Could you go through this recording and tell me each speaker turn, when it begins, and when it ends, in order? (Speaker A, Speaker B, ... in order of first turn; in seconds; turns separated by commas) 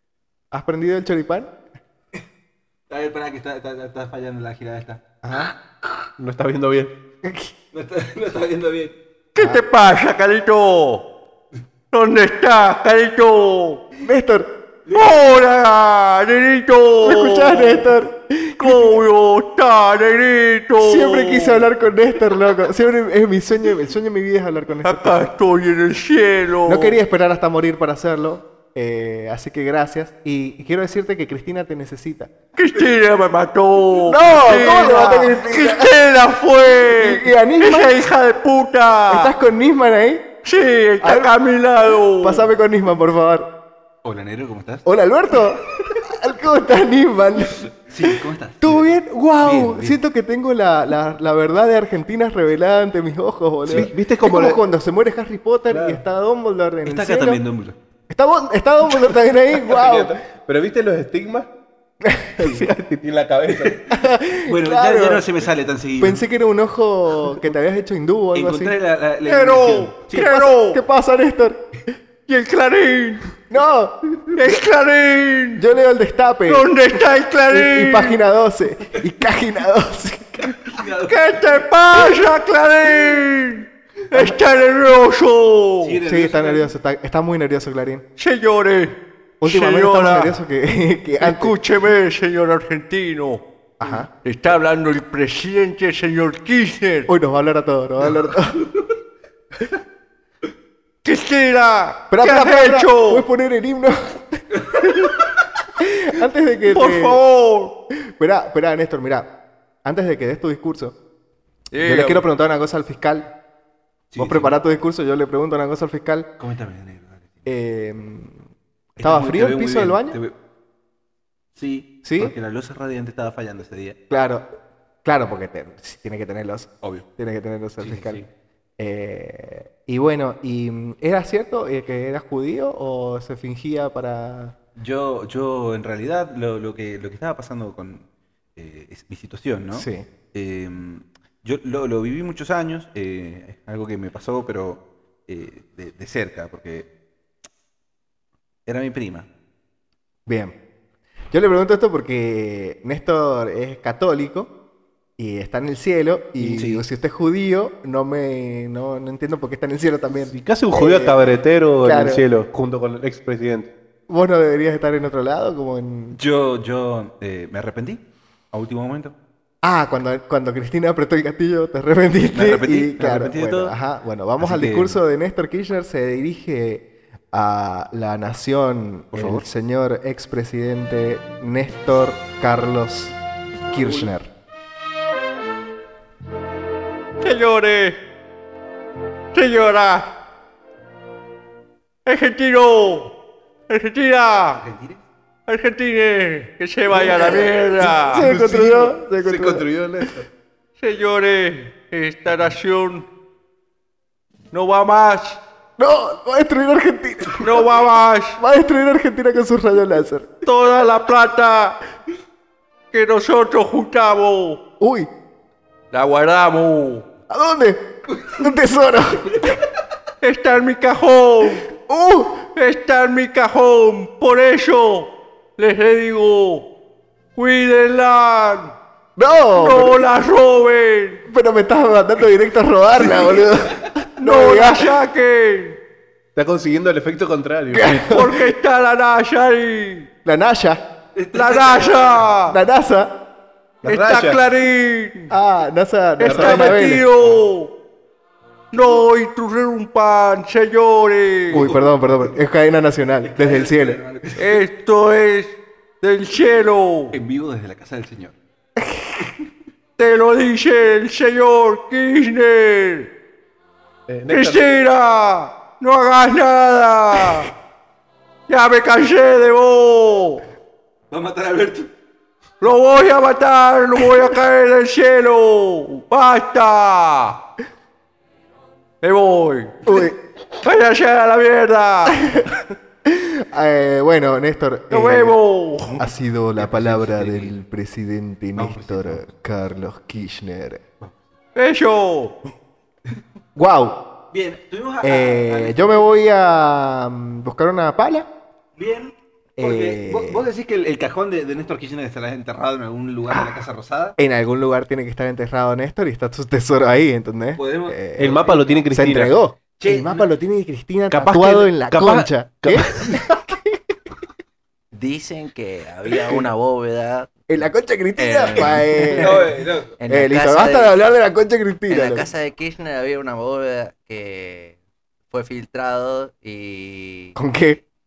Speaker A: 0.5-1.5, Speaker B: 2.9-5.0, Speaker A: 5.2-5.5, Speaker C: 6.2-6.9, Speaker A: 7.2-7.5, Speaker B: 7.7-8.9, Speaker D: 9.3-11.1, Speaker A: 9.4-9.6, Speaker D: 11.9-13.9, Speaker A: 14.0-14.5, Speaker B: 14.9-15.4, Speaker D: 14.9-17.9, Speaker A: 17.0-19.0, Speaker D: 18.6-21.7, Speaker A: 20.8-25.1, Speaker D: 24.8-27.0, Speaker A: 26.6-32.3, Speaker D: 32.5-39.3, Speaker A: 34.0-36.0, Speaker A: 36.8-38.1, Speaker A: 39.1-40.3, Speaker D: 40.4-42.5, Speaker A: 41.0-41.3, Speaker A: 42.1-43.5, Speaker B: 44.0-44.8, Speaker A: 44.8-57.4, Speaker B: 47.9-48.9, Speaker B: 49.4-50.0, Speaker C: 53.7-54.6, Speaker C: 55.7-56.0, Speaker B: 56.8-57.8, Speaker A: 58.1-60.2, Speaker C: 59.7-61.5, Speaker A: 62.0-62.7, Speaker C: 62.4-63.8, Speaker A: 63.9-65.2, Speaker B: 64.5-66.2, Speaker A: 66.0-68.7, Speaker B: 68.3-70.3, Speaker D: 69.2-70.8, Speaker A: 70.1-71.6, Speaker D: 72.3-73.3, Speaker A: 73.5-74.2, Speaker D: 74.3-75.6, Speaker A: 75.6-76.8, Speaker D: 76.5-78.2, Speaker A: 77.5-80.8, Speaker B: 80.7-81.2, Speaker D: 81.0-86.0, Speaker B: 85.8-86.7, Speaker A: 86.0-88.0, Speaker D: 88.2-90.4, Speaker A: 89.4-91.5, Speaker D: 91.2-93.4, Speaker A: 93.8-94.1, Speaker D: 94.2-97.1, Speaker A: 97.1-98.7, Speaker D: 101.0-103.2, Speaker A: 102.1-105.2, Speaker A: 105.8-107.2, Speaker D: 106.7-107.8, Speaker A: 108.2-109.3, Speaker A: 109.8-111.0, Speaker D: 111.7-112.2, Speaker A: 111.8-113.3, Speaker B: 114.1-114.6, Speaker A: 114.2-116.3, Speaker B: 116.4-117.4, Speaker A: 117.4-120.2, Speaker B: 119.0-120.3, Speaker B: 121.5-124.0, Speaker A: 122.0-122.3, Speaker A: 124.1-124.5, Speaker A: 125.0-128.2, Speaker B: 127.8-128.2, Speaker A: 128.8-134.6, Speaker B: 134.8-138.0, Speaker B: 138.6-146.9, Speaker A: 139.7-140.1, Speaker B: 148.7-149.3, Speaker A: 150.3-150.5, Speaker A: 151.3-154.5, Speaker A: 155.2-161.3, Speaker B: 156.4-156.8, Speaker C: 160.3-163.7, Speaker A: 161.8-162.2, Speaker A: 164.1-166.2, Speaker B: 166.1-169.1, Speaker A: 169.6-183.1, Speaker B: 172.3-173.8, Speaker B: 174.4-175.0, Speaker B: 179.1-179.4, Speaker A: 183.7-184.3, Speaker B: 183.8-184.1, Speaker D: 187.2-188.0, Speaker D: 189.3-190.1, Speaker D: 192.1-193.1, Speaker D: 193.7-194.6, Speaker B: 194.5-195.0, Speaker D: 195.5-198.7, Speaker B: 197.0-197.5, Speaker A: 197.1-199.7, Speaker C: 198.2-200.2, Speaker D: 200.8-203.1, Speaker D: 204.5-205.4, Speaker A: 205.8-207.6, Speaker D: 207.4-208.4, Speaker A: 208.4-210.3, Speaker D: 210.4-211.8, Speaker D: 212.9-214.6, Speaker A: 214.8-215.1, Speaker D: 215.9-217.1, Speaker A: 217.3-219.6, Speaker D: 220.2-221.7, Speaker A: 221.8-222.4, Speaker D: 222.5-226.7, Speaker D: 227.3-228.8, Speaker A: 229.2-230.0, Speaker D: 229.6-231.2, Speaker A: 231.3-235.0, Speaker D: 234.2-235.8, Speaker C: 236.3-238.1, Speaker A: 237.7-238.4, Speaker D: 238.1-240.1, Speaker A: 240.2-240.8, Speaker B: 241.2-242.3, Speaker D: 241.3-242.6, Speaker A: 242.5-243.1, Speaker C: 243.8-244.4, Speaker D: 243.8-245.3, Speaker A: 245.3-247.1, Speaker D: 246.2-247.7, Speaker C: 246.2-246.8, Speaker D: 248.7-251.7, Speaker A: 251.5-254.0, Speaker B: 251.5-251.9, Speaker B: 253.2-254.6, Speaker D: 254.3-257.2, Speaker B: 257.1-258.3, Speaker A: 258.8-259.3, Speaker D: 260.0-263.1, Speaker C: 264.1-264.7, Speaker D: 264.2-267.5, Speaker D: 268.5-270.4, Speaker B: 271.1-271.9, Speaker D: 272.6-277.4, Speaker D: 279.0-280.1, Speaker A: 279.9-280.2, Speaker D: 280.6-282.4, Speaker A: 282.1-282.5, Speaker A: 283.1-285.4, Speaker D: 284.9-286.0, Speaker A: 286.0-290.8, Speaker B: 286.6-287.5, Speaker B: 288.6-289.2, Speaker D: 291.6-292.4, Speaker A: 293.6-294.1, Speaker B: 294.3-296.1, Speaker A: 295.0-298.2, Speaker B: 298.8-304.1, Speaker A: 299.6-300.5, Speaker A: 304.2-313.8, Speaker B: 307.6-308.8, Speaker C: 308.1-309.4, Speaker B: 309.8-310.2, Speaker C: 311.1-313.1, Speaker E: 314.9-317.3, Speaker A: 317.5-319.4, Speaker E: 318.2-319.5, Speaker B: 319.2-320.0, Speaker E: 320.0-321.0, Speaker A: 320.1-322.3, Speaker E: 321.9-324.8, Speaker E: 325.3-327.3, Speaker A: 327.4-327.8